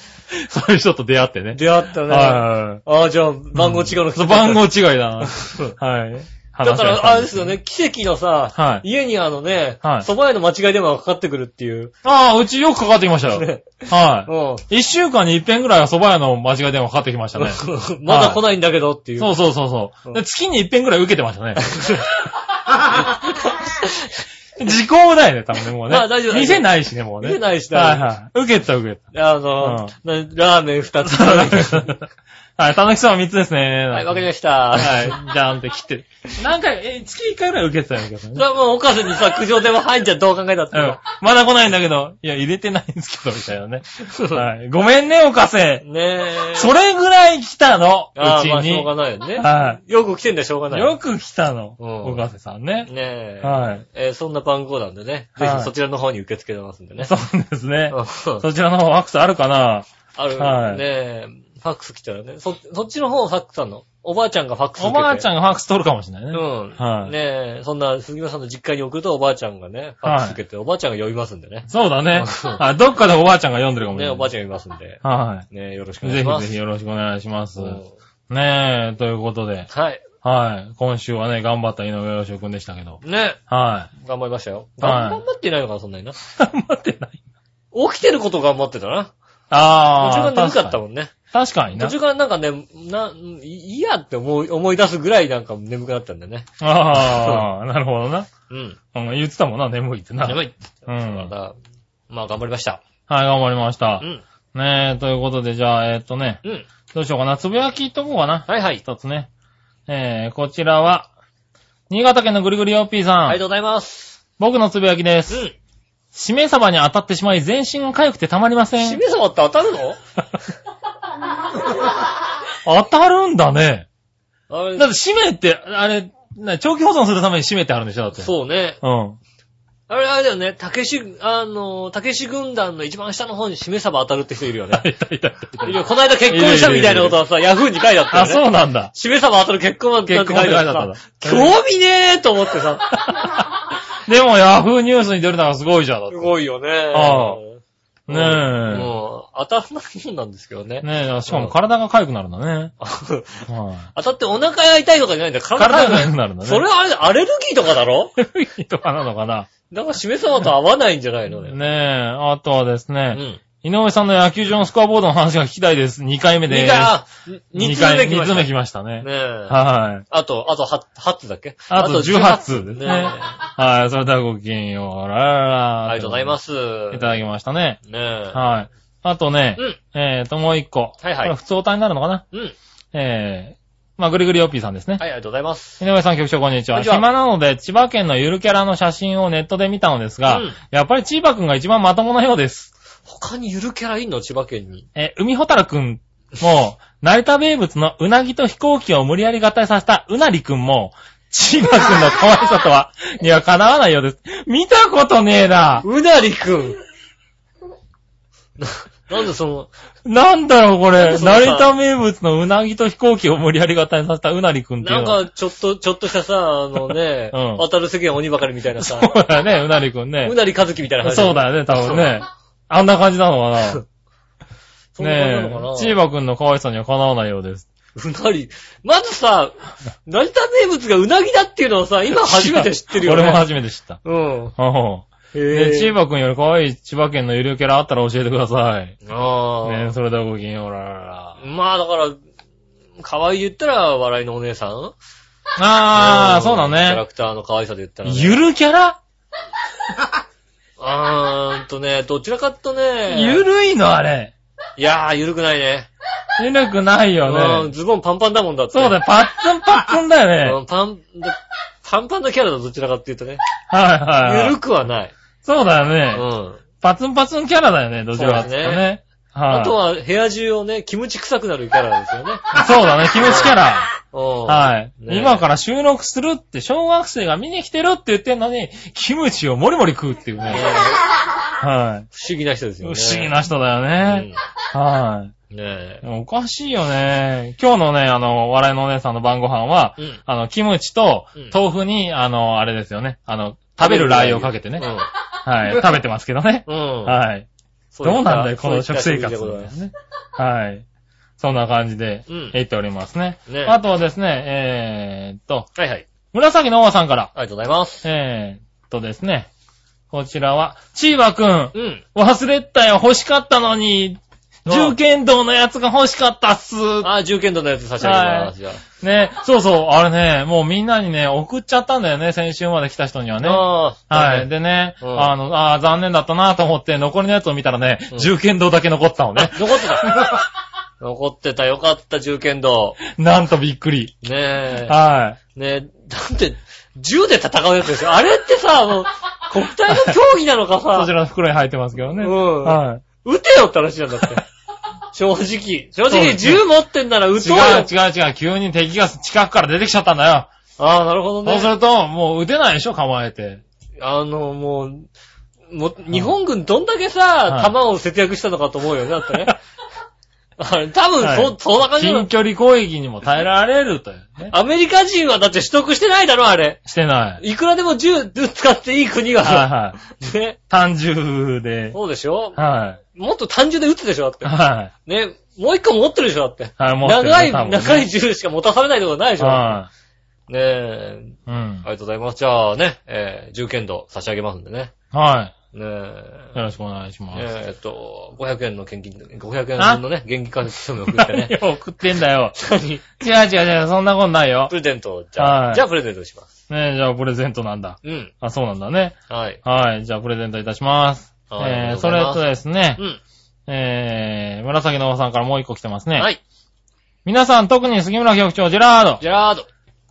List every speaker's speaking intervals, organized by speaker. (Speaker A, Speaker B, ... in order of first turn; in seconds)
Speaker A: 0.3-2.8, 3.5-7.6, 8.6-8.8, 9.8-10.1, 12.0-18.4, 19.2-21.6, 24.6-29.0, 29.6-29.9, 31.0-32.1, 32.6-38.5, 40.7-45.9, 46.5-49.8, 50.7-52.9, 53.4-53.8, 55.4-55.7, 57.0-60.8, 64.8-67.1, 70.0-70.4, 71.7-74.3, 75.0-75.5, 76.0-79.7, 80.2-83.9, 84.8-85.2, 86.3-87.2, 89.5-90.8, 91.3-92.0, 96.6-98.3, 98.9-101.3, 103.1-106.4, 106.9-109.3, 109.9-111.1, 111.9-113.4, 114.4-115.5, 116.1-119.0, 122.7-123.9, 124.8-128.3, 128.8-129.2, 134.7-137.2, 138.1-138.9, 140.1-141.6, 143.1-143.5, 144.1-146.4, 146.9-147.4, 148.1-148.9, 150.8-152.7, 153.5-153.9, 155.6-156.7, 158.2-159.5, 161.4-167.0, 167.6-170.1, 171.7-176.4, 176.9-177.8, 178.3-182.2, 182.9-185.0, 185.8-192.7, 194.9-205.8, 210.1-215.2, 216.9-217.6, 218.8-220.4, 221.0-223.8, 225.0-227.7, 232.1-234.0, 234.6-239.0, 239.6-241.4, 245.6-247.0, 248.1-249.0, 253.1-254.3, 256.4-257.7, 258.7-260.6, 263.7-264.6, 265.4-266.2, 266.8-269.8, 272.5-273.9, 274.5-280.7, 281.6-282.1, 282.8-285.3, 286.0-294.9, 295.4-297.5, 298.0-300.9, 301.4-305.7, 306.3-307.3, 308.0-309.5, 310.1-317.1, 318.0-330.4, 333.0-334.2, 334.8-335.4, 339.9-340.2, 340.9-343.0, 346.1-346.6, 347.4-350.5, 351.4-353.6, 361.2-364.5, 366.9-367.4, 369.4-370.0, 370.7-372.0, 372.6-373.0, 374.4-374.9, 376.8-378.1, 379.4-379.9, 381.5-381.9, 385.1-385.6, 386.6-387.5, 389.8-390.0, 391.1-392.6, 393.2-394.7, 395.4-395.9, 396.7-403.0, 403.7-406.3, 407.2-409.2
Speaker B: 1.5-4.6, 5.2-5.8, 6.6-11.9, 13.3-14.6, 17.4-19.4, 21.6-22.1, 23.4-24.0, 25.9-28.1, 29.1-31.9, 33.9-35.2, 38.4-41.0, 44.0-44.5, 45.8-46.7, 48.2-51.0, 51.8-52.2, 52.9-57.1, 57.9-58.5, 60.1-65.3, 66.3-72.6, 73.9-76.5, 77.6-77.9, 79.7-80.0, 83.0-83.4, 84.0-86.2, 87.7-89.1, 90.0-91.1, 91.7-97.5, 98.5-98.8, 100.2-101.6, 102.1-102.8, 108.5-108.8, 113.3-114.2, 115.3-115.5, 118.8-120.0, 124.5-124.9, 128.2-128.8, 129.9-134.8, 135.6-143.1, 146.1-151.5, 152.8-158.1, 159.7-161.6, 163.1-163.4, 166.5-173.3, 175.9-177.2, 177.8-178.4, 181.0-181.3, 185.0-185.8, 186.7-187.1, 190.3-190.6, 193.1-194.9, 205.8-206.8, 208.6-209.7, 210.9-211.8, 214.8-219.2, 220.2-222.2, 225.0-226.0, 227.9-233.5, 234.0-234.6, 235.3-235.9, 239.1-239.9, 241.4-242.2, 243.0-244.9, 245.9-248.4, 250.8-253.4, 254.8-255.9, 257.2-259.0, 260.4-263.4, 264.2-265.1, 266.1-266.6, 268.1-268.9, 269.5-272.6, 273.1-275.5, 280.5-281.0, 282.1-283.4, 284.0-284.4, 285.5-286.0, 293.8-295.1, 296.7-297.2, 297.9-299.7, 302.3-302.6, 303.5-303.8, 305.8-306.1, 307.4-308.1, 311.7-312.0, 314.7-315.0, 317.0-318.8, 323.4-325.3, 329.4-330.3, 331.0-333.0, 334.2-335.0, 335.5-341.1, 342.2-344.4, 345.1-347.9, 350.8-351.7, 354.0-355.1, 355.7-359.6, 360.6-362.3, 364.5-366.8, 367.4-370.6, 371.9-372.6, 373.1-374.5, 375.1-379.8, 380.5-384.9, 385.7-386.5, 387.3-391.5, 392.6-393.0, 394.7-396.5, 398.0-398.3, 399.3-399.6, 401.5-403.2, 409.2-409.7